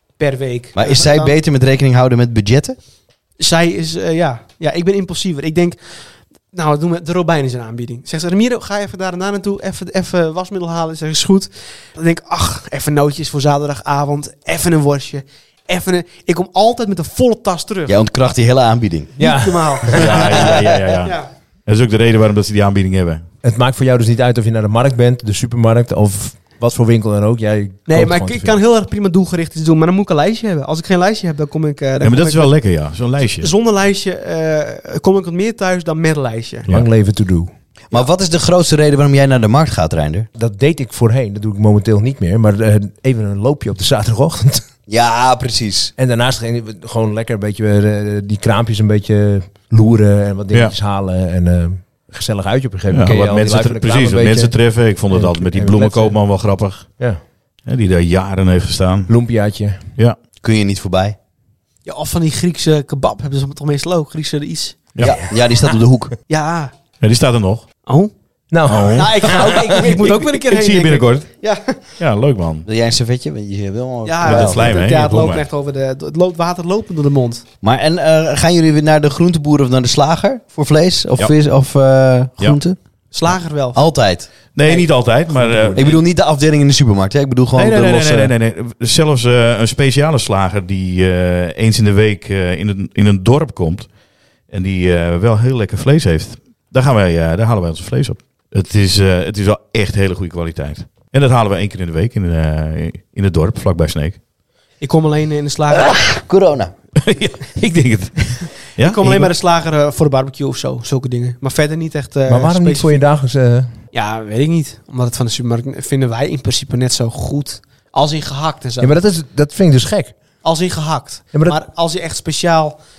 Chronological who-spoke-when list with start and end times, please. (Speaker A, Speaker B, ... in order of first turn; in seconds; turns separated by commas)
Speaker A: 0.2-1.4, Speaker B: 0.7-2.8, Speaker A: 3.4-5.8, Speaker A: 6.5-18.0, Speaker B: 17.9-19.1, Speaker A: 19.2-20.5, Speaker C: 19.2-20.0, Speaker D: 19.9-23.2, Speaker B: 20.0-21.0, Speaker A: 21.0-21.3, Speaker C: 23.4-28.6, Speaker A: 27.9-32.5, Speaker D: 32.0-33.5, Speaker A: 33.4-36.7, Speaker C: 36.7-37.5, Speaker B: 37.9-40.3, Speaker C: 40.3-44.6, Speaker B: 44.9-45.9, Speaker C: 46.0-54.5, Speaker D: 52.9-56.9, Speaker C: 55.1-56.2, Speaker D: 57.6-59.1, Speaker C: 59.1-59.8, Speaker B: 60.4-61.1, Speaker A: 61.9-64.9, Speaker B: 65.0-66.1, Speaker A: 66.3-66.7, Speaker D: 67.0-67.6, Speaker A: 67.8-68.1, Speaker C: 68.5-70.1, Speaker D: 68.7-71.2, Speaker A: 68.9-71.8, Speaker D: 72.0-72.7, Speaker B: 72.7-74.8, Speaker A: 74.0-77.4, Speaker D: 74.2-75.4, Speaker B: 77.6-82.8, Speaker A: 83.1-83.8, Speaker B: 83.7-84.3, Speaker D: 84.5-85.9, Speaker C: 85.3-85.9, Speaker B: 85.7-88.3, Speaker D: 87.5-93.9, Speaker D: 94.5-104.2, Speaker A: 104.8-106.0, Speaker B: 105.7-106.7, Speaker D: 107.0-109.3, Speaker A: 108.8-113.0, Speaker C: 112.3-113.7, Speaker A: 113.9-118.9, Speaker C: 118.8-120.1, Speaker A: 120.4-122.8, Speaker C: 121.3-121.6